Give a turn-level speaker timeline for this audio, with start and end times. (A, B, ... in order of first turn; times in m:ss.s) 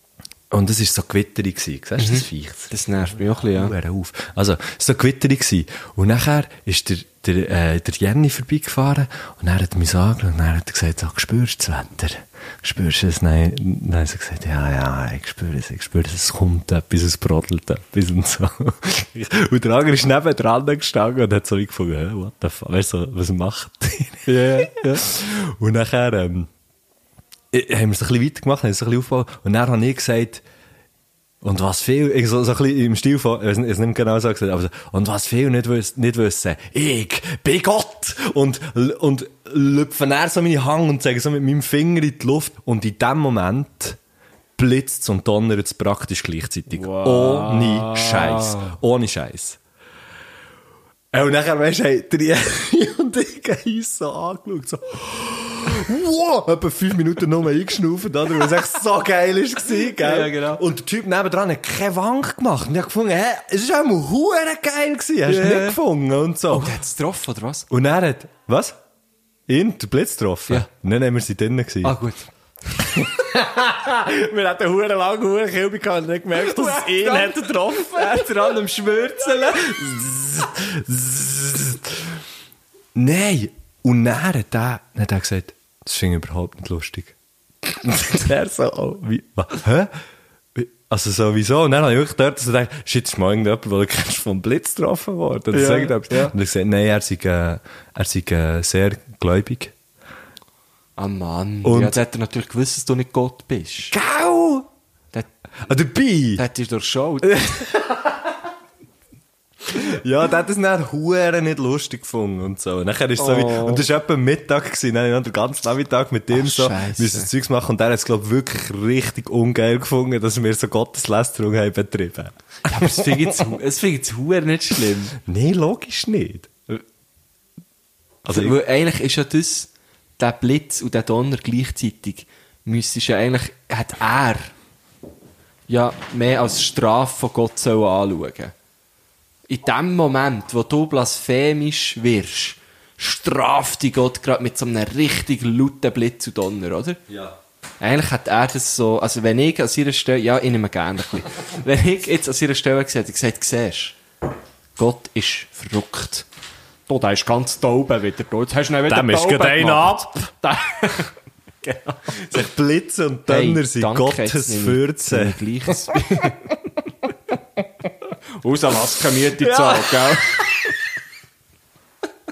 0:00.5-0:02.7 A
0:02.0-0:03.7 B
0:03.4-0:26.5 A
0:24.3-0:25.0 B
0:27.5-0:30.4 A
0:31.4-0:44.0 A
0:44.6-0:49.6 A
0:46.7-0:48.8 B
0:51.1-1:06.7 A
0:59.9-1:00.6 B
1:05.2-1:05.8 B
1:06.5-1:07.7 B
1:07.7-1:08.8 A
1:09.5-1:11.9 A
1:11.8-1:12.3 B
1:12.8-1:18.6 A
1:16.4-1:19.8 B
1:19.4-1:22.2 A
1:22.9-1:27.1 A
1:27.7-1:29.9 A
1:30.6-1:39.7 A
1:35.5-1:36.3 B
1:41.0-1:43.9 B
1:41.6-1:42.0 A
1:43.9-1:44.7 A
1:45.6-1:46.4 A
1:46.4-1:47.4 B
1:47.2-1:48.3 A
1:49.6-2:03.5 A
1:53.2-1:53.9 B
1:56.3-1:57.3 B
2:02.6-2:05.2 B
2:05.2-2:06.8 A
2:08.2-2:08.6 A
2:08.2-2:14.5 B
2:15.7-2:18.5 B
2:19.5-2:27.0 B
2:27.1-2:27.4 A
2:27.8-2:34.0 B
2:34.8-2:36.3 B
2:36.9-2:41.1 B
2:38.9-2:40.3 A
2:41.6-2:42.3 B
2:42.3-2:46.0 A
2:43.3-2:46.4 B
2:48.4-2:50.6 B
2:49.4-2:50.6 A